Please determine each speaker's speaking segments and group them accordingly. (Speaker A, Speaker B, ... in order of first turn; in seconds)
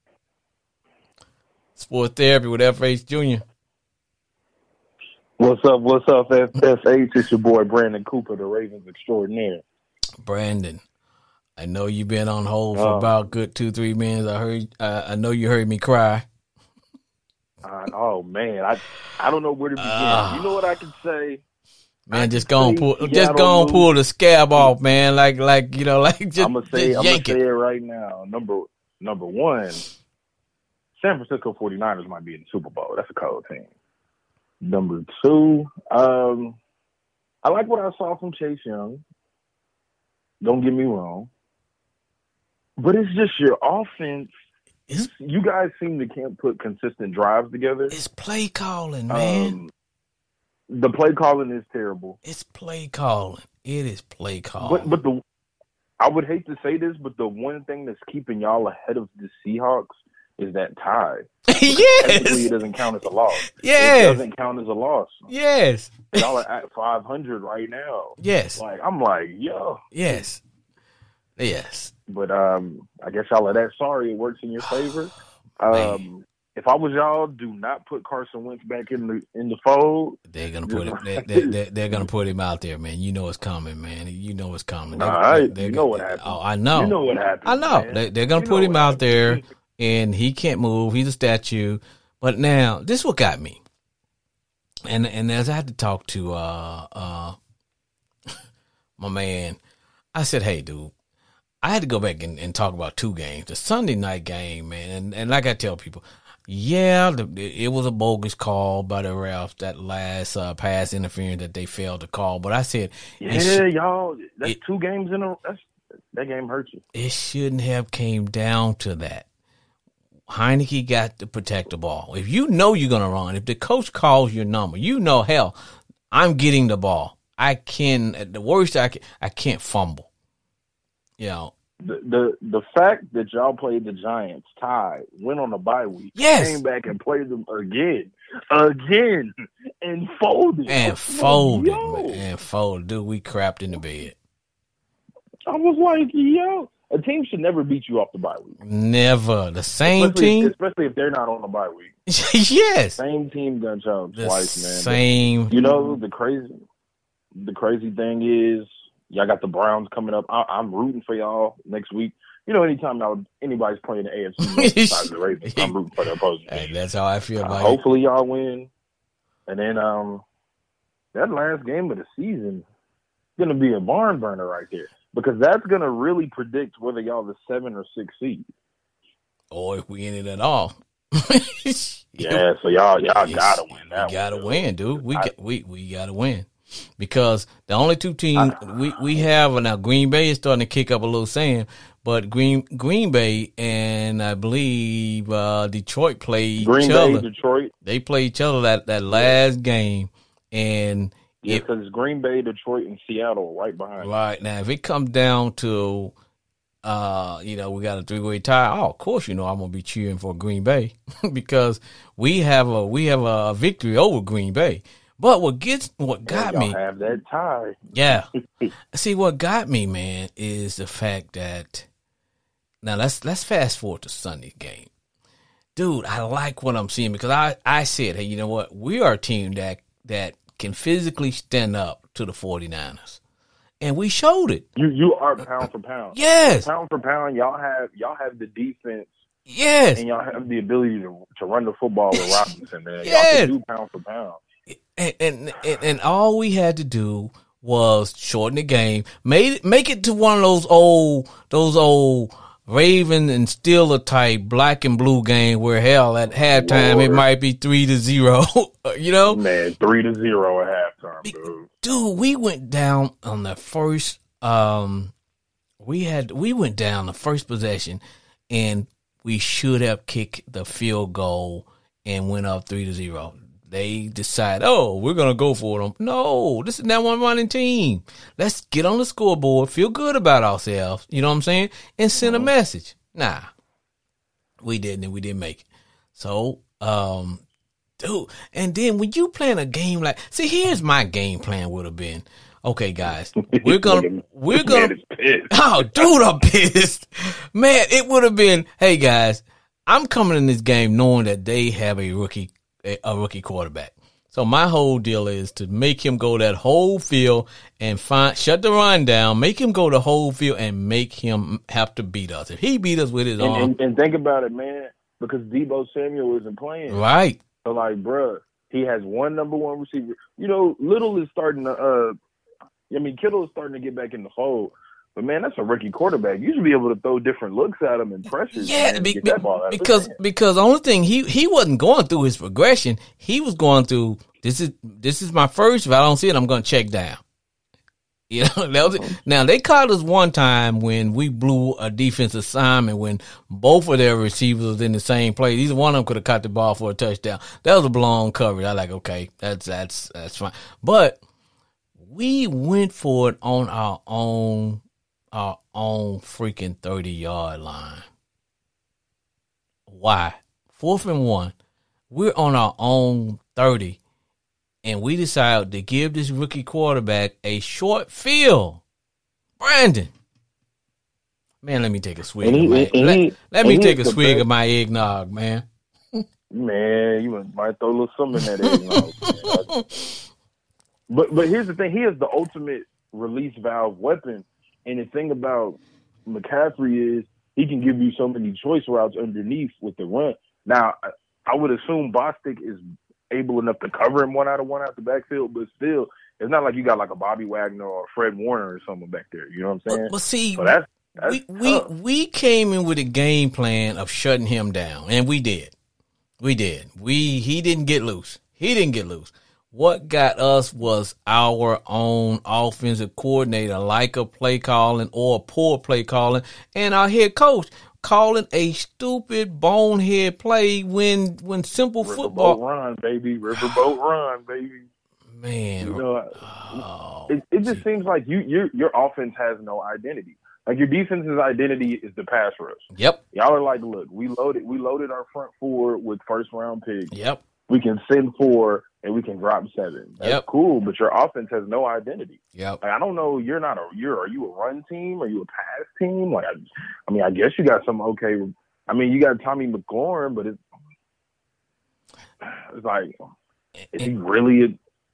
Speaker A: 1.8-3.4, 10.2-10.8, 11.6-16.2, 19.8-20.6, 22.1-27.4, 47.9-49.6, 52.2-54.9, 61.5-62.5, 63.5-64.2, 65.3-66.3, 68.2-68.6, 69.9-70.4, 71.4-71.9, 75.7-76.0, 80.3-93.6, 94.9-97.3, 99.0-99.6, 100.1-100.9, 101.6-113.6, 116.9-119.2, 120.3-125.5, 126.1-130.1, 131.2-131.5, 136.1-136.6, 140.7-144.2, 148.6-150.5, 152.1-153.0, 154.1-155.6, 164.4-165.7, 166.5-167.8, 179.5-182.4, 183.1-197.2, 197.8-201.6, 204.0-206.1, 206.8-216.8, 217.9-218.3, 218.9-221.9, 222.8-224.9, 225.8-233.2, 233.8-234.6, 236.1-236.7, 239.5-240.0, 242.1-242.4, 243.0-243.5, 244.7-259.4, 261.2-265.1, 265.8-283.5, 284.6-287.4, 288.0-294.9, 295.5-313.7, 316.9-317.4, 328.5-337.2, 338.3-351.2, 352.0-358.1, 359.9-361.5, 362.1-364.0, 364.8-368.8, 369.6-370.1, 371.6-375.6, 378.9-380.1, 399.9-405.7, 406.4-422.6, 425.3-427.8, 432.9-433.2, 437.1-437.4, 440.2-440.4, 442.5-442.8
Speaker B: 5.4-9.6, 12.7-13.1, 17.6-21.4, 22.1-23.9, 26.4-29.8, 30.9-33.7, 34.6-36.6, 37.4-39.0, 40.4-41.3, 42.8-44.3, 45.0-47.9, 49.1-49.7, 50.7-52.2, 54.6-55.2, 56.0-65.3, 66.1-69.8, 72.1-81.5, 85.0-89.4, 113.2-116.8, 131.8-142.2, 145.5-148.6, 149.9-151.9, 153.0-155.0, 155.5-156.6, 157.3-166.7, 167.4-168.7, 169.5-170.2, 171.1-172.6, 173.4-178.4, 182.2-185.3, 188.4-188.7, 196.6-197.7, 201.4-204.1, 216.3-217.9, 234.8-239.1, 239.9-244.4, 256.4-257.2, 259.3-261.7, 282.2-282.5, 293.4-296.1, 313.4-317.0, 317.6-322.1, 322.9-330.1, 372.4-374.4, 376.5-379.8, 381.1-401.9, 422.0-424.9, 425.8-437.1, 437.7-446.5, 447.1-450.6, 452.4-453.3, 453.9-454.8